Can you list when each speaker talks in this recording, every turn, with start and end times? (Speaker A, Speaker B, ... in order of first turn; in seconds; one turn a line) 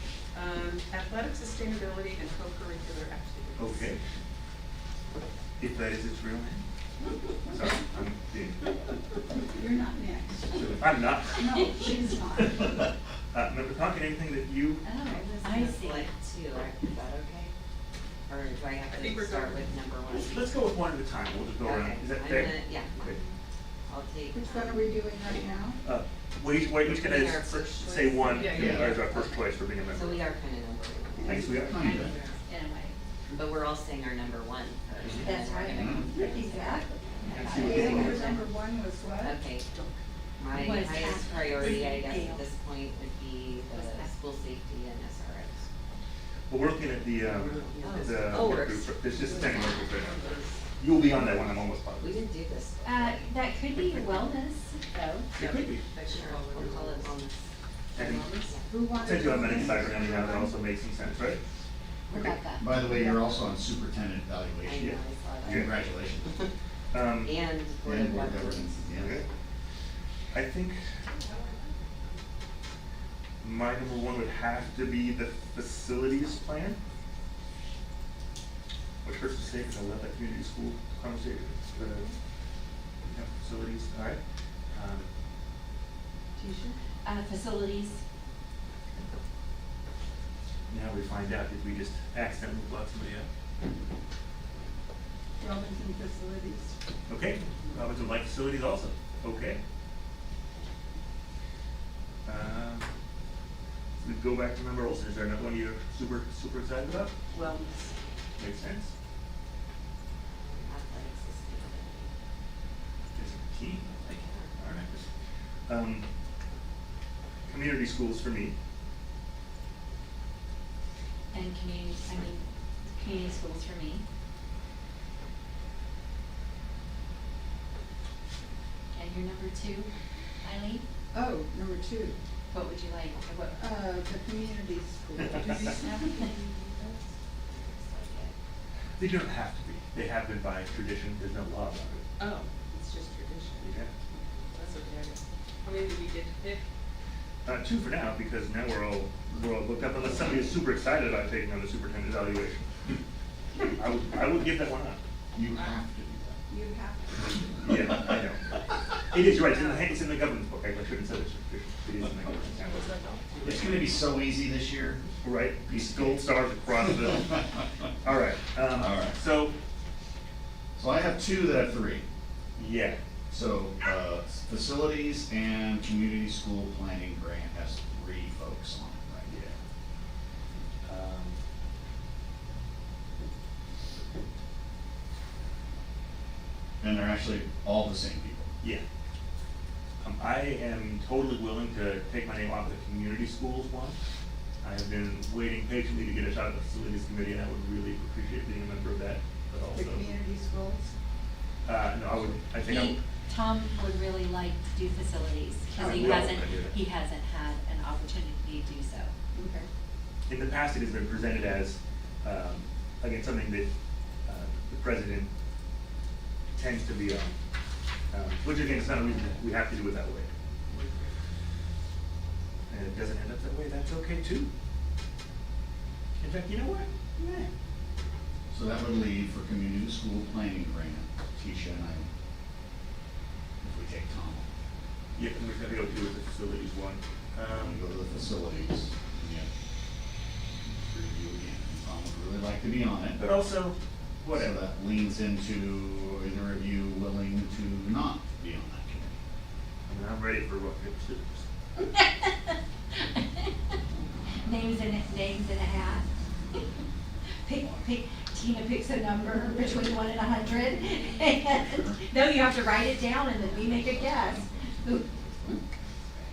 Speaker A: 0.3-4.0
Speaker B: 3.6-4.0
Speaker B: 5.6-6.7
Speaker B: 7.5-8.6
Speaker C: 9.3-12.9
Speaker B: 10.5-14.9
Speaker D: 14.8-16.1
Speaker E: 15.1-17.5
Speaker E: 18.3-20.5
Speaker A: 18.9-19.6
Speaker B: 20.1-23.2
Speaker E: 21.6-23.0
Speaker E: 23.9-24.9
Speaker C: 24.3-25.8
Speaker B: 25.8-30.3
Speaker E: 26.8-32.4
Speaker A: 28.3-28.8
Speaker F: 28.6-28.9
Speaker B: 31.2-31.9
Speaker F: 31.2-32.1
Speaker D: 31.8-33.0
Speaker E: 33.4-36.9
Speaker B: 35.0-35.3
Speaker D: 35.2-38.4
Speaker F: 35.7-36.1
Speaker C: 37.2-40.0
Speaker B: 37.3-38.3
Speaker E: 37.5-38.4
Speaker E: 39.2-39.7
Speaker E: 40.4-45.7
Speaker D: 40.5-42.5
Speaker D: 43.7-44.2
Speaker B: 46.5-50.2
Speaker A: 47.2-48.3
Speaker E: 47.3-49.9
Speaker D: 47.8-48.2
Speaker A: 50.0-50.6
Speaker B: 50.8-52.2
Speaker E: 52.0-53.4
Speaker D: 52.9-55.3
Speaker B: 55.4-55.8
Speaker A: 55.4-57.2
Speaker E: 56.0-57.5
Speaker B: 58.0-58.3
Speaker A: 58.0-58.6
Speaker E: 58.4-58.7
Speaker C: 58.7-60.6
Speaker B: 59.0-61.4
Speaker D: 62.1-63.3
Speaker F: 62.1-64.9
Speaker E: 64.6-66.5
Speaker B: 64.8-65.7
Speaker F: 65.4-66.3
Speaker B: 66.9-67.3
Speaker E: 67.2-69.3
Speaker F: 67.8-69.2
Speaker B: 68.9-69.3
Speaker B: 70.3-70.8
Speaker A: 71.3-71.6
Speaker B: 73.4-76.8
Speaker B: 79.0-82.1
Speaker C: 81.8-82.1
Speaker B: 83.1-84.2
Speaker B: 84.7-85.1
Speaker C: 86.4-86.8
Speaker D: 87.0-88.0
Speaker B: 90.7-93.3
Speaker C: 95.4-96.7
Speaker B: 97.1-99.6
Speaker B: 102.2-102.9
Speaker B: 104.0-107.1
Speaker A: 107.3-107.9
Speaker B: 108.4-108.9
Speaker E: 110.3-112.1
Speaker B: 113.2-115.1
Speaker E: 114.0-114.5
Speaker B: 115.7-116.1
Speaker B: 117.5-118.6
Speaker D: 121.3-124.0
Speaker D: 128.9-129.9
Speaker D: 130.4-130.8
Speaker C: 131.1-132.2
Speaker D: 132.5-133.8
Speaker C: 133.6-137.1
Speaker B: 135.2-135.5
Speaker A: 135.6-136.0
Speaker E: 137.6-138.3
Speaker B: 139.0-142.1
Speaker A: 142.2-143.6
Speaker B: 143.6-143.9
Speaker A: 144.5-146.6
Speaker B: 147.4-152.7
Speaker B: 153.7-155.0
Speaker F: 155.3-156.4
Speaker C: 156.5-157.9
Speaker B: 157.6-162.8
Speaker A: 159.4-159.9
Speaker A: 162.6-163.6
Speaker F: 163.4-165.1
Speaker B: 163.4-163.8
Speaker B: 165.2-167.5
Speaker F: 165.6-166.2
Speaker F: 166.8-167.1
Speaker B: 168.0-169.5
Speaker F: 168.7-169.2
Speaker F: 170.8-172.0
Speaker B: 172.6-173.0
Speaker F: 173.3-179.4
Speaker B: 179.3-179.6
Speaker B: 180.8-181.4
Speaker F: 186.8-188.5
Speaker B: 190.0-194.0
Speaker B: 194.6-200.1
Speaker C: 199.7-200.9
Speaker B: 201.7-203.0
Speaker D: 202.6-209.1
Speaker C: 205.8-206.2
Speaker B: 205.8-206.8
Speaker C: 209.3-209.7
Speaker B: 210.3-213.7
Speaker B: 214.3-215.3
Speaker B: 216.6-217.4
Speaker B: 218.1-220.3
Speaker B: 222.7-224.5
Speaker B: 226.2-227.4
Speaker F: 228.5-232.1
Speaker F: 233.6-234.5
Speaker B: 235.2-237.8
Speaker F: 237.6-239.5
Speaker F: 240.6-243.2
Speaker B: 243.2-244.6
Speaker F: 244.3-249.2
Speaker B: 249.9-251.5
Speaker D: 251.9-253.5
Speaker D: 254.4-256.6
Speaker D: 257.4-265.1
Speaker F: 260.5-265.6